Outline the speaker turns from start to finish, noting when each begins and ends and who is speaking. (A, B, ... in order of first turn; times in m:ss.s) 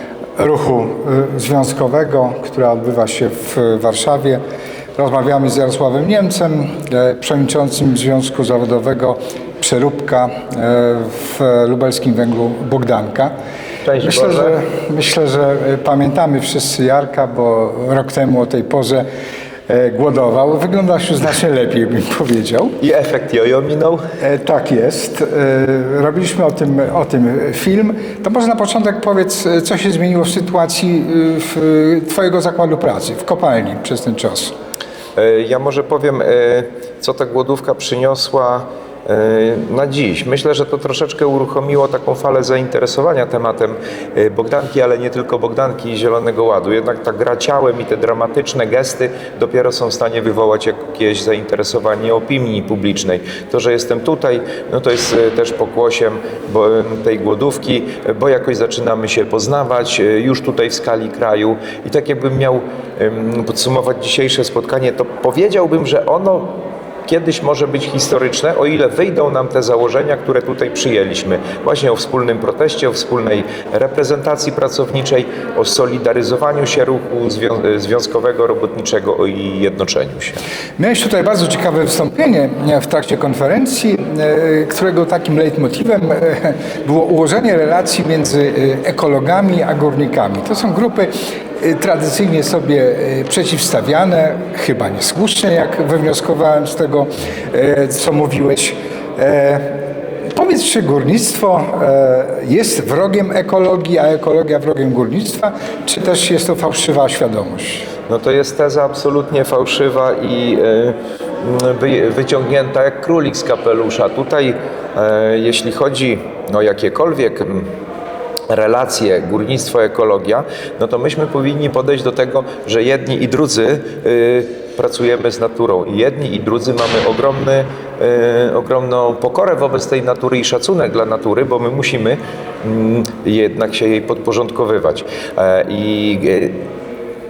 0:00.4-0:04.4 A
0:05.0-0:13.3 A
0:13.8-0:14.6 B
0:14.0-0:19.0 A
0:19.7-0:22.8 A
0:22.8-0:24.0 B
0:24.2-0:34.5 A
0:35.2-1:20.4 B
1:20.8-1:47.9 A
1:48.1-1:57.7 B
1:58.5-2:16.6 B